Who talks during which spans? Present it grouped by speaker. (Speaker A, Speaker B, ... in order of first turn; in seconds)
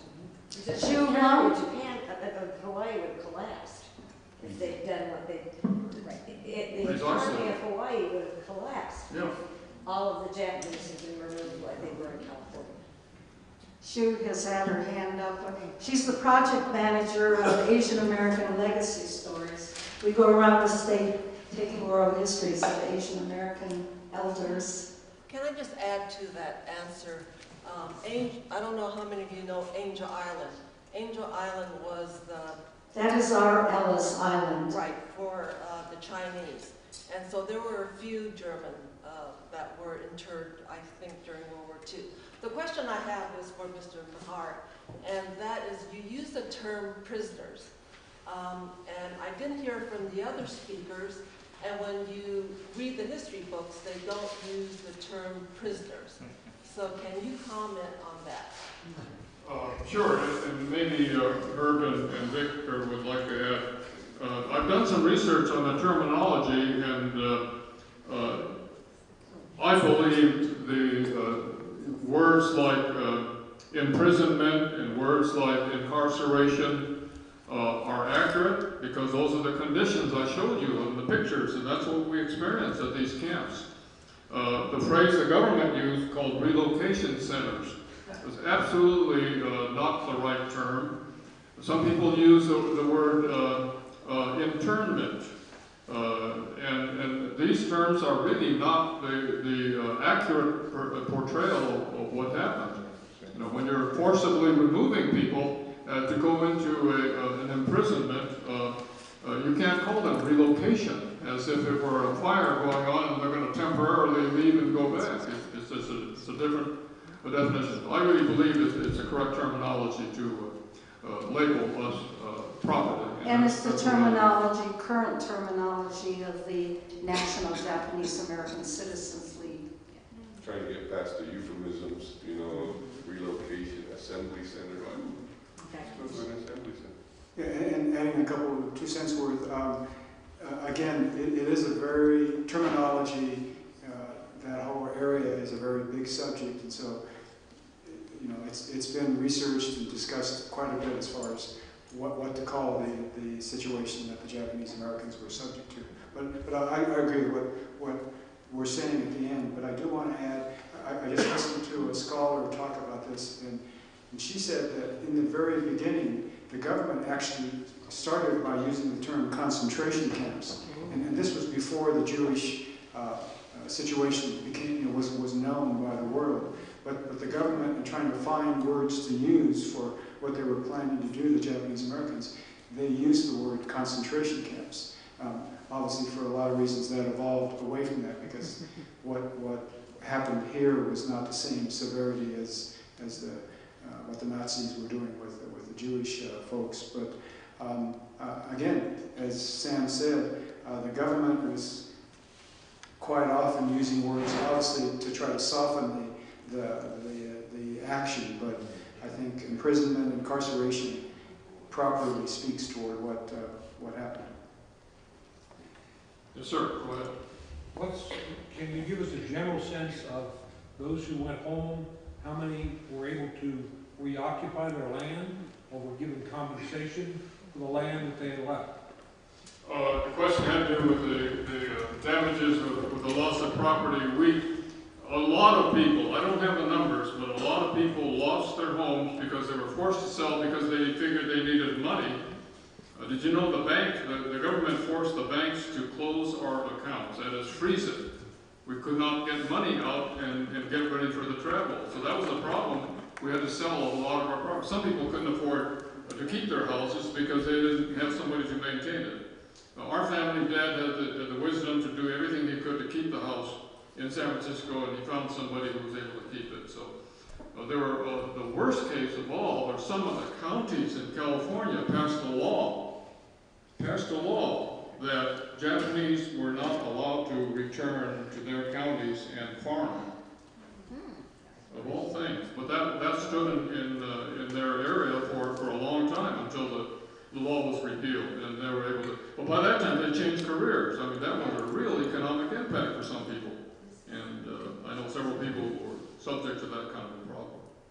Speaker A: 0.5-12.8
Speaker B: 0.7-1.6, 13.8-24.9, 32.9-34.8, 123.2-130.0
Speaker C: 6.8-7.6, 59.4-67.5, 68.0-68.6, 69.5-76.9, 77.5-83.6, 84.3-91.0, 91.5-95.3, 95.8-124.3, 216.3-217.1, 229.6-242.2, 242.9-248.1, 248.6-259.2, 259.7-266.9, 267.5-272.9, 273.8-280.1, 281.7-297.6
Speaker D: 25.3-32.6, 34.7-47.7, 48.2-58.6
Speaker E: 130.4-135.2, 135.8-136.9
Speaker F: 137.3-139.8, 140.4-147.0, 147.8-201.9, 203.0-211.0, 211.7-214.3
Speaker G: 217.7-228.7